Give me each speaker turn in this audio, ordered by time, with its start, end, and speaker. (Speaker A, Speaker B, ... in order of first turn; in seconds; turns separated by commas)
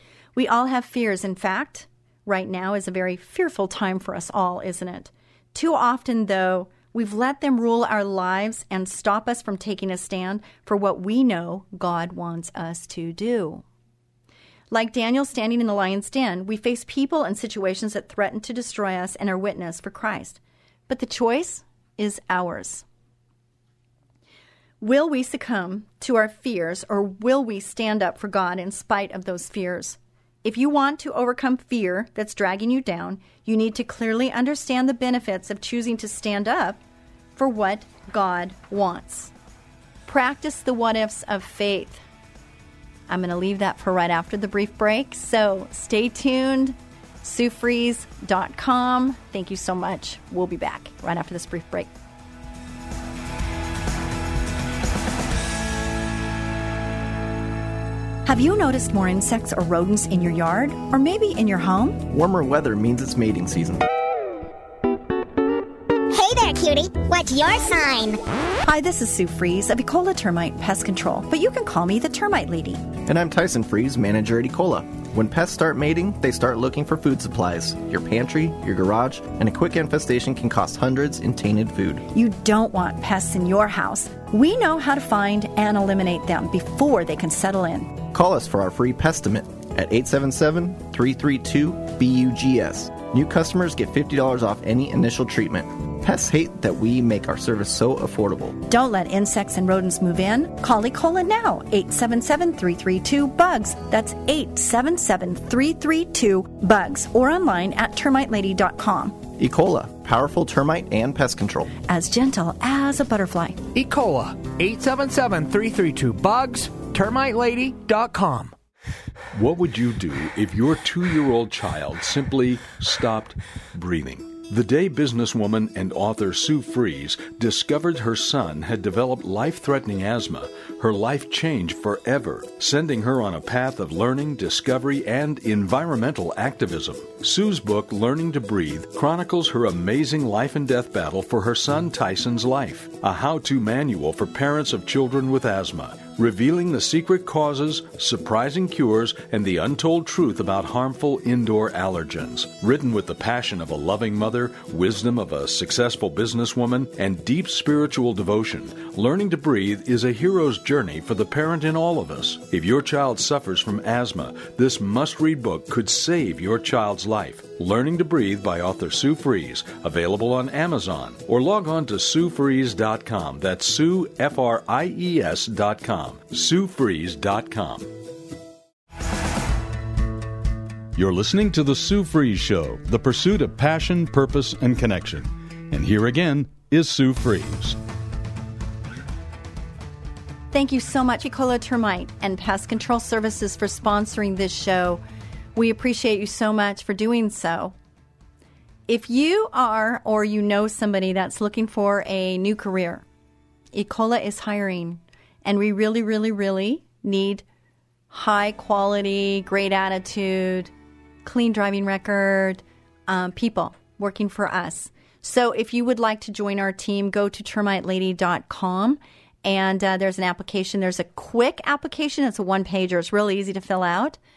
Speaker A: 0.3-13.6, Speaker A: 14.7-22.9, Speaker A: 24.8-36.8, Speaker A: 37.4-39.3, Speaker A: 40.1-42.0, Speaker A: 43.1-51.9, Speaker A: 58.3-62.0, Speaker B: 62.1-63.9, Speaker C: 66.1-68.2, Speaker A: 68.6-72.8, Speaker B: 73.1-82.0, Speaker A: 82.1-88.0, Speaker B: 88.1-98.6, Speaker A: 98.7-109.2, Speaker B: 109.4-111.7, Speaker A: 111.8-113.6, Speaker D: 113.7-118.5, Speaker E: 119.3-178.0, Speaker E: 180.9-187.8, Speaker A: 190.5-195.0, Speaker A: 195.6-197.8, Speaker A: 198.9-203.0, Speaker A: 203.7-207.4, Speaker A: 208.1-210.7, Speaker A: 211.2-224.2